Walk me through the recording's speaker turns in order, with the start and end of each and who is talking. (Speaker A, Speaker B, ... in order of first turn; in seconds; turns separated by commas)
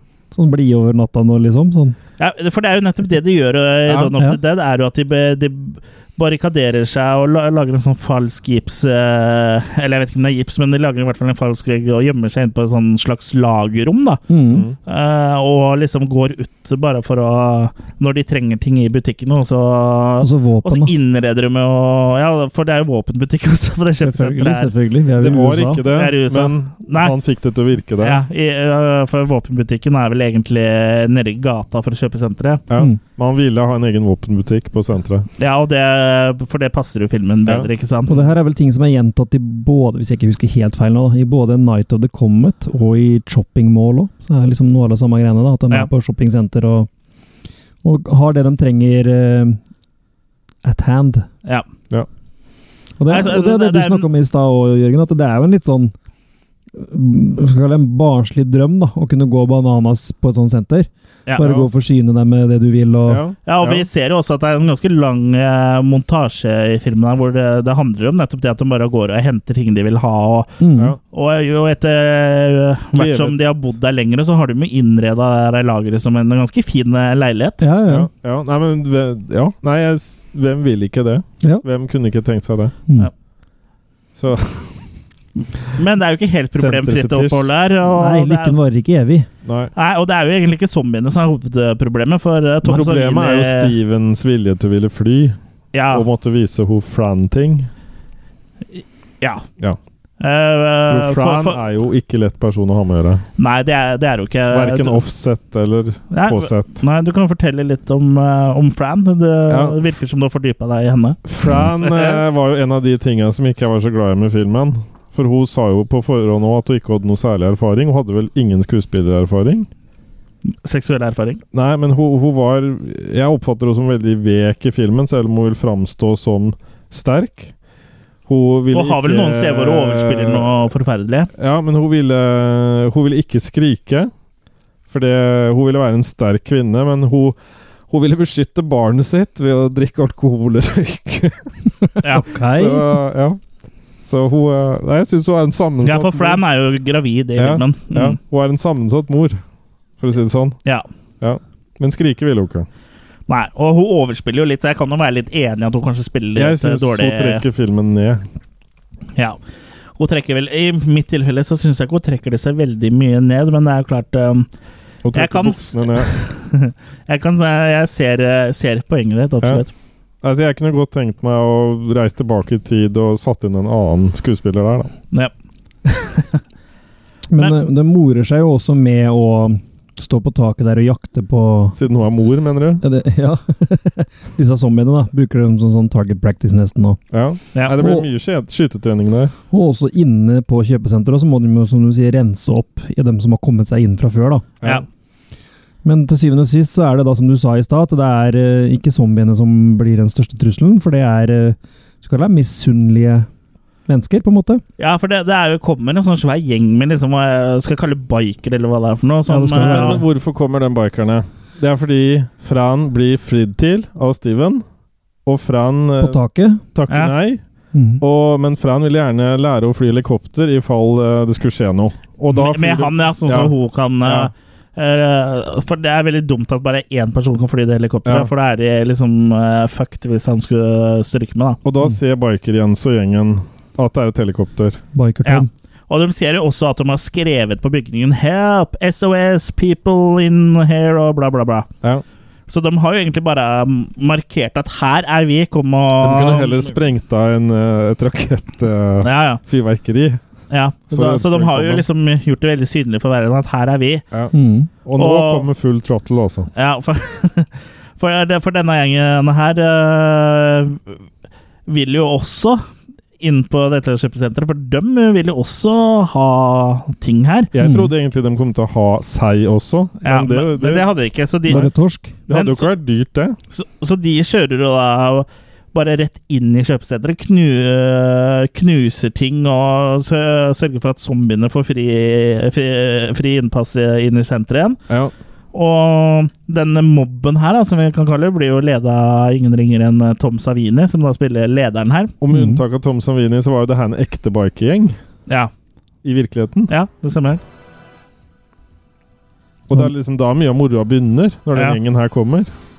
Speaker A: 0.3-2.0, Speaker B: 2.2-14.2, Speaker A: 14.3-14.7, Speaker C: 14.5-14.8, Speaker B: 14.9-24.7, Speaker A: 20.2-20.9, Speaker A: 24.0-25.9, Speaker C: 25.2-28.2, Speaker B: 25.9-27.2, Speaker B: 28.0-32.6, Speaker C: 32.7-35.3, Speaker A: 32.7-33.0, Speaker B: 35.4-38.2, Speaker A: 38.1-46.9, Speaker A: 47.8-49.6, Speaker A: 50.6-51.3, Speaker A: 53.0-55.9, Speaker B: 53.1-54.0, Speaker A: 56.7-63.2, Speaker B: 61.3-61.5, Speaker C: 61.4-61.7, Speaker C: 63.1-63.9, Speaker B: 63.5-70.5, Speaker A: 70.6-71.0, Speaker B: 71.1-77.7, Speaker C: 72.9-73.4, Speaker A: 77.6-78.1, Speaker C: 77.9-82.8, Speaker C: 84.2-84.8, Speaker B: 85.8-88.6, Speaker C: 86.5-87.5, Speaker A: 87.9-89.3, Speaker C: 89.5-89.7, Speaker B: 89.8-93.8, Speaker C: 92.6-95.4, Speaker B: 95.7-96.1, Speaker C: 95.9-97.7, Speaker B: 98.8-99.5, Speaker B: 100.2-101.6, Speaker C: 100.9-103.3, Speaker B: 103.4-105.0, Speaker C: 104.5-106.8, Speaker B: 106.1-111.2, Speaker C: 109.5-109.8, Speaker C: 111.3-119.7, Speaker B: 111.8-112.2, Speaker B: 120.6-121.4, Speaker C: 121.5-127.5, Speaker C: 128.3-130.5, Speaker B: 128.7-131.3, Speaker C: 131.3-134.1, Speaker C: 134.9-137.4, Speaker C: 137.9-141.6, Speaker A: 142.1-143.0, Speaker C: 142.5-143.4, Speaker C: 144.1-146.4, Speaker B: 145.8-148.2, Speaker C: 147.4-149.4, Speaker C: 150.0-150.6, Speaker C: 151.2-152.7, Speaker B: 153.3-157.4, Speaker C: 156.4-158.2, Speaker B: 160.0-164.5, Speaker C: 165.0-166.1, Speaker B: 165.1-169.7, Speaker C: 170.2-174.9, Speaker B: 175.8-176.4, Speaker A: 177.3-181.8, Speaker B: 177.4-177.6, Speaker C: 181.8-182.8, Speaker A: 182.8-187.0, Speaker C: 187.1-189.3, Speaker B: 187.5-187.8, Speaker A: 187.8-188.1, Speaker A: 189.5-194.5, Speaker A: 195.8-203.3, Speaker A: 203.9-204.6, Speaker B: 204.8-210.0, Speaker A: 209.3-210.0, Speaker C: 209.6-214.7, Speaker C: 215.2-216.2, Speaker A: 216.0-216.6, Speaker C: 216.7-217.4, Speaker B: 216.9-217.1, Speaker A: 217.7-218.0, Speaker C: 218.0-224.3, Speaker B: 222.3-231.6, Speaker C: 231.6-234.8, Speaker A: 234.9-235.5, Speaker B: 235.2-241.7, Speaker B: 242.5-246.8, Speaker C: 246.0-250.2, Speaker B: 249.0-249.4, Speaker B: 250.5-254.1, Speaker C: 250.9-251.8, Speaker C: 254.1-256.5, Speaker A: 254.3-254.7, Speaker B: 255.0-255.5, Speaker B: 256.6-261.0, Speaker B: 261.7-262.6, Speaker B: 263.2-267.5, Speaker C: 267.5-270.9, Speaker A: 267.6-267.9, Speaker B: 270.0-271.7, Speaker A: 271.5-272.2, Speaker B: 272.3-272.7, Speaker C: 272.3-273.4, Speaker B: 273.5-284.8, Speaker B: 285.5-292.1, Speaker C: 292.2-295.0, Speaker A: 292.3-292.6, Speaker C: 296.0-296.7, Speaker B: 296.7-297.4, Speaker C: 299.7-302.5, Speaker B: 301.5-301.8